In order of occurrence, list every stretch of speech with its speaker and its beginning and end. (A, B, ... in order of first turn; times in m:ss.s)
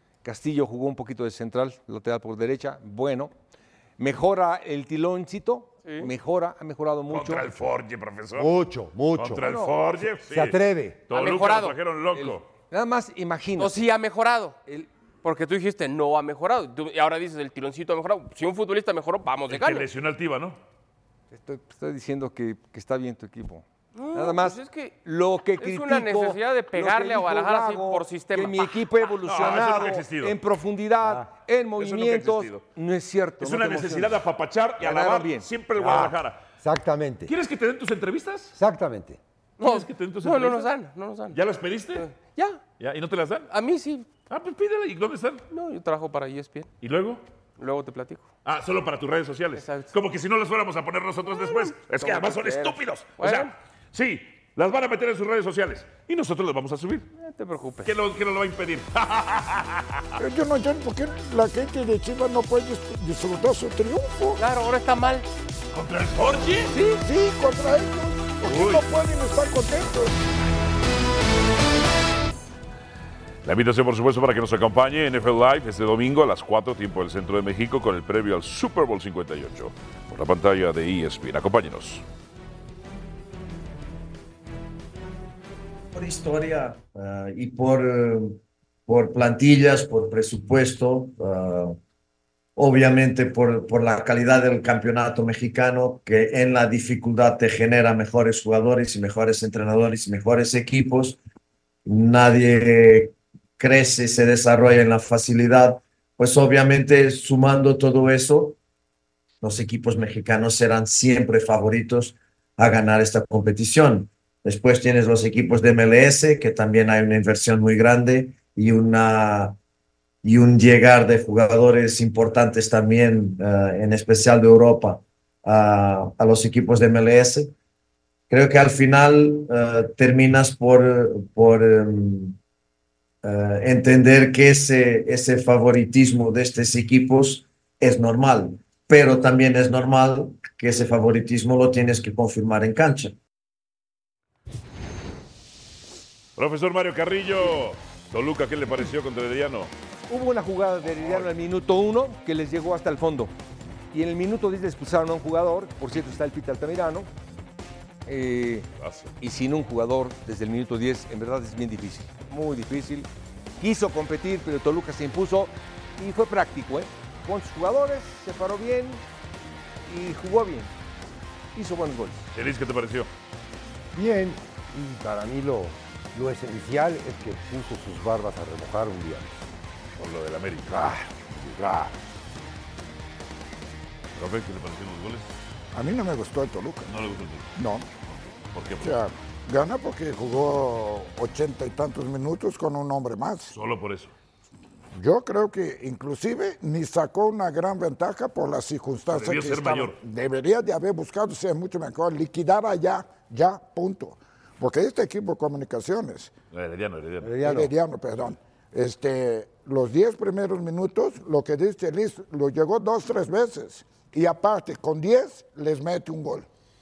0:00.2-0:03.3 A
0:04.0-0:07.6 A
0:05.8-0:06.1 B
0:07.1-0:08.5 C
0:08.4-0:09.4 D
0:09.1-0:12.4 C
0:09.4-0:09.8 A
0:10.2-0:11.0 D
0:11.1-0:11.8 B
0:12.1-0:13.8 A
0:13.6-0:14.6 B
0:15.2-0:19.9 B
0:19.5-0:20.6 C
0:21.3-0:34.2 A
0:23.9-0:25.0 B
0:25.6-0:28.8 B
0:29.2-0:30.4 C
0:31.8-0:32.6 C
0:33.4-0:36.4 C
0:34.8-0:35.5 A
0:35.8-0:37.3 D
0:37.3-0:38.5 C
0:38.5-0:39.2 D
0:39.6-0:41.4 B
0:39.6-0:40.7 C
0:41.3-0:42.0 C
0:41.9-0:42.6 B
0:42.8-0:43.5 C
0:43.5-0:44.1 B
0:44.3-0:45.4 C
0:45.5-0:46.7 B
0:46.8-0:47.2 C
0:47.6-0:48.2 B
0:48.4-0:57.1 C
0:49.6-0:49.9 B
0:51.2-0:53.5 B
0:57.2-0:57.9 B
0:57.8-1:00.2 C
1:00.2-1:04.4 E
1:04.4-1:05.3 B
1:05.7-1:06.8 C
1:06.7-1:07.0 B
1:07.0-1:10.2 E
1:08.4-1:08.8 C
1:13.4-1:22.0 C
1:25.9-1:31.8 F
1:32.6-1:41.2 F
1:41.8-1:48.6 F
1:49.4-1:59.6 F
2:00.2-2:07.5 F
2:08.3-2:12.4 F
2:13.2-2:23.2 F
2:26.4-2:29.7 C
2:30.1-2:33.3 A
2:30.9-2:31.3 C
2:33.9-2:37.1 A
2:38.0-2:38.7 A
2:38.8-2:39.1 C
2:39.2-2:43.1 A
2:43.6-2:49.0 A
2:49.8-2:50.7 A
2:51.5-2:52.2 A
2:52.3-2:53.1 C
2:53.9-2:59.5 D
3:00.0-3:01.6 C
3:01.6-3:01.9 E
3:04.2-3:05.2 C
3:05.7-3:06.9 E
3:06.8-3:07.5 C
3:07.6-3:07.9 E
3:08.1-3:09.0 C
3:08.8-3:13.5 E
3:13.5-3:14.1 C
3:14.9-3:26.3 E
3:19.1-3:20.0 C
3:26.5-3:27.4 C
3:27.2-3:27.7 D
3:27.4-3:36.5 E